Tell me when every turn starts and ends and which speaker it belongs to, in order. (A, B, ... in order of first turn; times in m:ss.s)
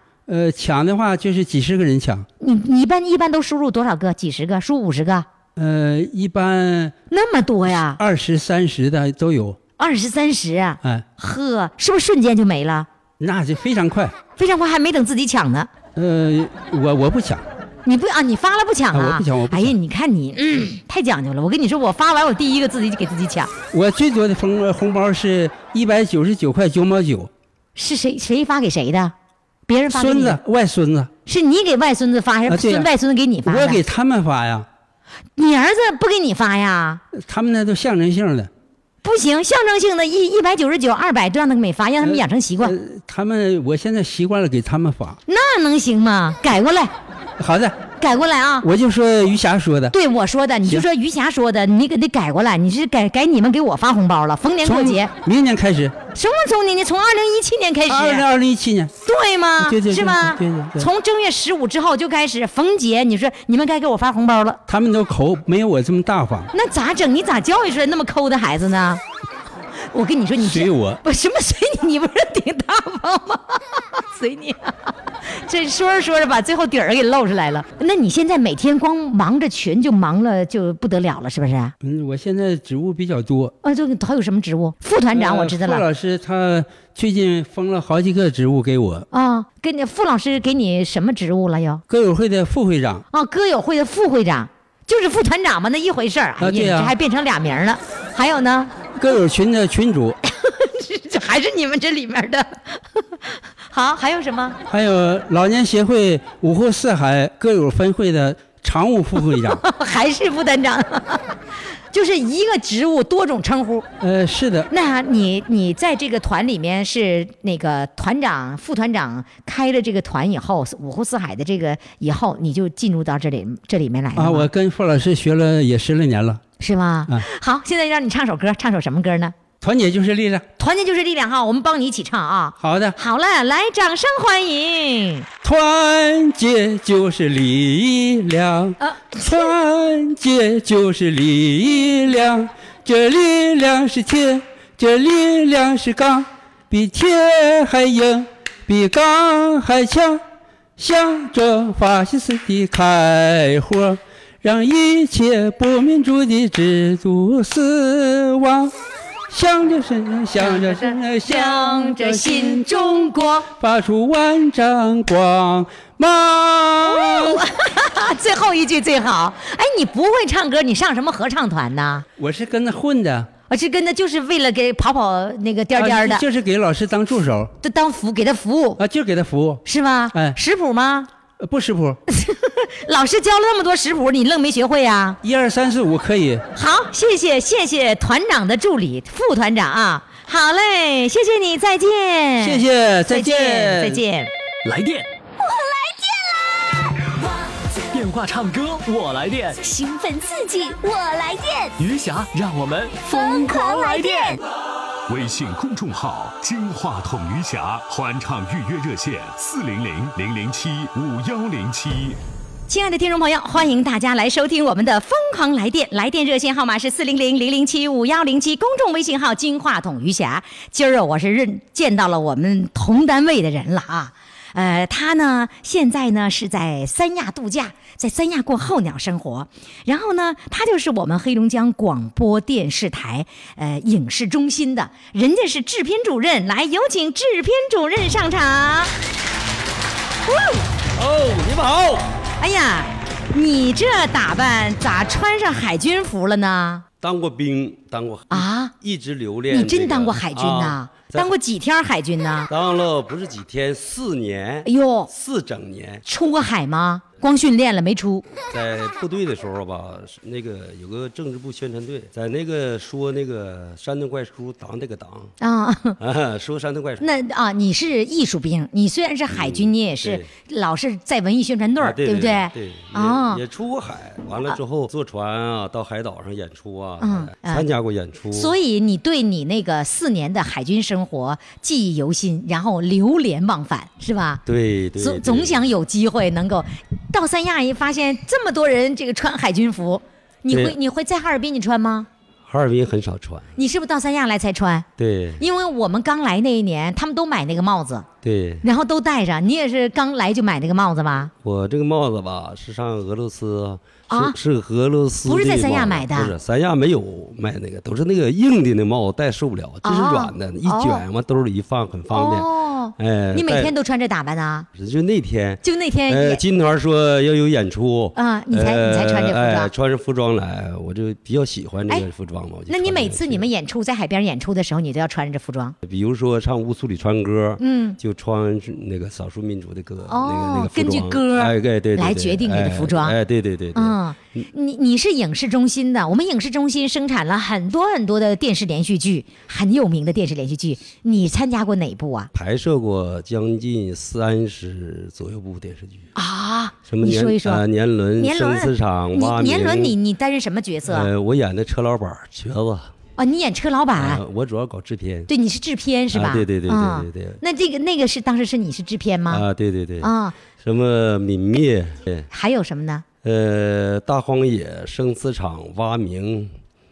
0:00.3-0:02.2 A
0:02.4-0:05.2 B
0:05.6-0:06.9 A
0:07.1-0:08.0 B
0:07.9-0:09.6 A
0:09.8-0:12.9 B
0:13.2-0:14.1 A
0:14.4-0:15.7 B
0:16.0-0:17.4 A
0:17.8-0:23.5 B
0:18.9-0:19.7 A
0:23.7-0:27.3 A
0:27.8-0:29.1 B
0:29.7-0:30.4 B
0:29.9-0:31.1 A
0:31.2-0:33.8 B
0:32.5-0:32.9 A
0:33.4-0:34.6 A
0:35.4-0:37.0 B
0:37.1-0:38.5 A
0:39.0-0:42.7 B
0:42.0-0:45.2 A
0:45.3-0:46.9 B
0:47.4-0:47.8 A
0:48.0-0:48.7 B
0:48.6-0:49.9 A
0:49.9-0:55.1 B
0:54.6-0:55.9 A
0:56.1-0:58.2 B
0:57.9-0:58.9 A
0:59.0-1:04.6 B
0:59.6-1:00.9 A
1:04.7-1:06.5 A
1:06.5-1:09.0 B
1:09.9-1:21.7 B
1:10.4-1:11.0 A
1:21.8-1:23.5 A
1:23.6-1:25.8 B
1:25.1-1:29.1 A
1:29.1-1:31.8 B
1:31.9-1:33.0 A
1:33.1-1:38.7 B
1:36.4-1:36.9 A
1:39.0-1:40.2 A
1:40.2-1:42.8 B
1:43.7-1:44.6 B
1:44.7-1:49.6 A
1:49.2-1:51.3 B
1:51.9-1:53.8 B
1:54.0-1:54.7 A
1:54.7-2:04.5 B
2:04.2-2:06.4 A
2:06.6-2:09.3 B
2:09.6-2:10.4 A
2:10.6-2:15.3 B
2:12.6-2:13.0 A
2:15.4-2:30.2 A
2:18.8-2:19.5 B
2:30.8-2:38.7 A
2:39.3-2:47.4 A
2:40.4-2:43.5 B
2:46.8-2:52.0 B
2:52.2-2:53.3 A
2:53.5-2:56.2 B
2:55.8-2:57.5 A
2:57.6-2:58.8 B
2:58.8-2:59.6 A
2:59.6-3:01.1 B
3:01.4-3:02.0 A
3:02.1-3:05.2 B
3:05.2-3:06.4 A
3:06.5-3:14.3 B
3:12.4-3:14.0 A
3:14.6-3:15.1 C
3:15.4-3:16.5 D
3:17.9-3:19.6 C
3:19.6-3:21.7 D
3:21.8-3:24.4 C
3:23.0-3:24.4 D
3:25.1-3:32.2 E
3:32.7-3:58.9 B
4:00.3-4:00.6 B
4:01.0-4:02.1 F
4:02.4-4:06.8 B
4:07.0-4:11.3 F
4:08.3-4:08.7 B
4:09.5-4:12.5 B
4:12.5-4:16.0 F
4:14.6-4:15.1 B
4:16.0-4:18.2 B
4:18.5-4:25.3 F
4:25.4-4:26.0 B
4:26.0-4:27.0 F
4:27.0-4:33.4 B
4:29.3-4:30.3 F
4:31.8-4:38.5 F
4:37.0-4:37.6 B
4:38.3-4:44.4 B
4:44.4-4:45.6 F
4:45.0-4:52.1 B
4:50.5-4:50.8 F
4:52.5-4:53.5 F
4:53.6-4:54.8 B
4:55.0-4:55.4 F
4:55.4-4:58.0 B
4:58.2-4:58.6 F
4:58.6-5:01.3 B
5:01.4-5:13.7 F
5:04.1-5:04.4 B
5:05.2-5:06.3 B
5:09.8-5:11.0 B
5:12.1-5:14.7 B
5:14.7-5:23.5 F
5:15.6-5:16.4 B
5:18.1-5:19.7 B
5:22.7-5:25.7 B
5:25.8-5:34.4 F
5:27.6-5:28.0 B
5:30.1-5:33.1 B
5:33.7-5:42.3 B
5:42.3-5:46.1 F
5:46.2-5:47.6 B
5:46.9-5:49.9 F
5:48.2-5:51.1 B
5:50.9-5:52.9 F
5:53.2-5:54.2 B
5:54.0-5:55.3 F
5:55.3-5:59.4 B
5:56.1-5:57.4 F
5:59.3-6:02.3 F
6:00.0-6:00.4 B
6:02.3-6:03.0 B
6:03.2-6:06.5 F